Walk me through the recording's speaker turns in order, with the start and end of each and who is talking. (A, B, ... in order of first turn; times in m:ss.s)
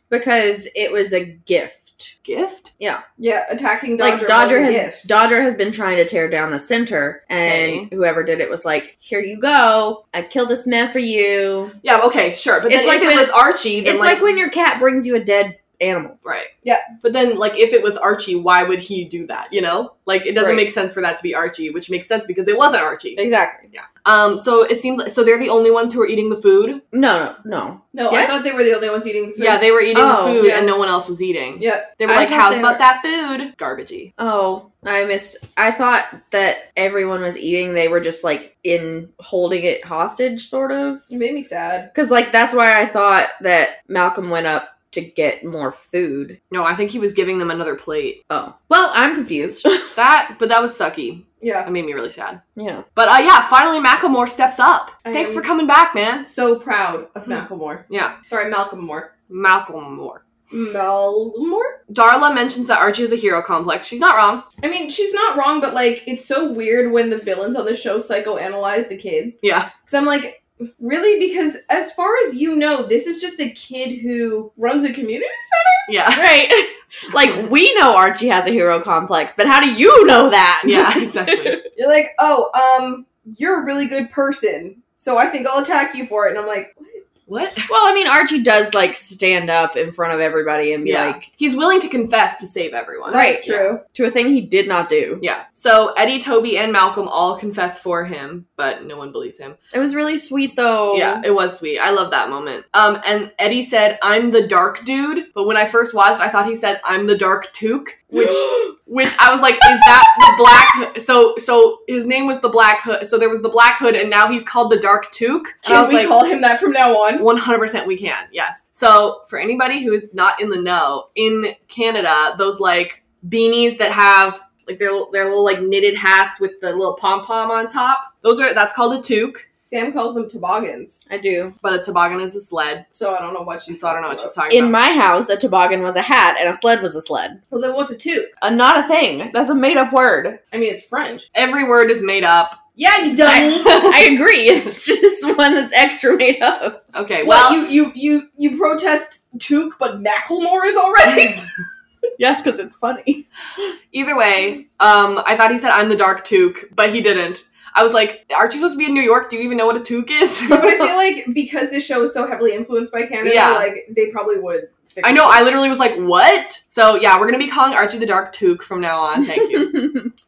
0:00.1-0:02.1 A
0:02.2-0:02.7 B
0:03.2-0:05.1 C
0:04.0-0:11.8 A
0:07.4-0:07.9 B
0:11.8-0:14.2 B
0:12.7-0:16.2 A
0:16.2-0:16.5 B
0:17.0-0:26.8 B
0:20.4-0:20.6 C
0:23.2-0:23.7 A
0:26.9-0:28.5 A
0:27.9-0:29.7 C
0:29.4-0:34.1 B
0:29.9-0:30.5 A
0:30.4-0:30.7 C
0:31.6-0:32.8 C
0:34.2-0:41.0 A
0:41.1-0:41.9 C
0:41.9-0:46.4 A
0:46.5-0:48.2 B
0:48.3-0:49.9 A
0:50.0-0:52.4 B
0:51.4-0:51.7 C
0:52.6-0:52.8 A
0:53.0-0:56.3 B
0:55.0-0:55.5 C
0:56.2-0:59.1 C
0:57.2-0:58.2 B
0:59.3-1:00.2 B
1:00.5-1:01.8 C
1:01.9-1:04.4 B
1:04.6-1:15.9 C
1:09.4-1:09.7 B
1:15.9-1:16.3 B
1:16.2-1:21.7 A
1:20.6-1:21.6 B
1:21.8-1:27.0 C
1:27.3-1:27.7 B
1:27.7-1:31.3 A
1:30.8-1:33.7 B
1:33.1-1:33.8 C
1:33.1-1:35.2 A
1:35.2-1:39.6 B
1:39.7-1:41.2 A
1:40.9-1:56.2 B
1:48.2-1:48.5 C
1:55.6-1:57.3 C
1:57.2-2:09.5 B
2:09.6-2:11.0 C
2:11.1-2:11.6 A
2:11.6-2:12.9 B
2:12.9-2:14.4 C
2:13.7-2:14.8 B
2:14.5-2:17.4 A
2:17.5-2:18.3 C
2:18.4-2:20.4 A
2:20.5-2:21.3 C
2:21.3-2:22.6 B
2:22.8-2:23.9 C
2:23.2-2:26.8 A
2:23.7-2:23.9 B
2:26.9-2:27.6 B
2:27.2-2:31.5 C
2:32.2-2:33.2 A
2:33.9-2:40.8 B
2:40.5-2:45.5 C
2:43.2-2:43.7 B
2:45.0-2:49.8 B
2:49.4-2:50.1 A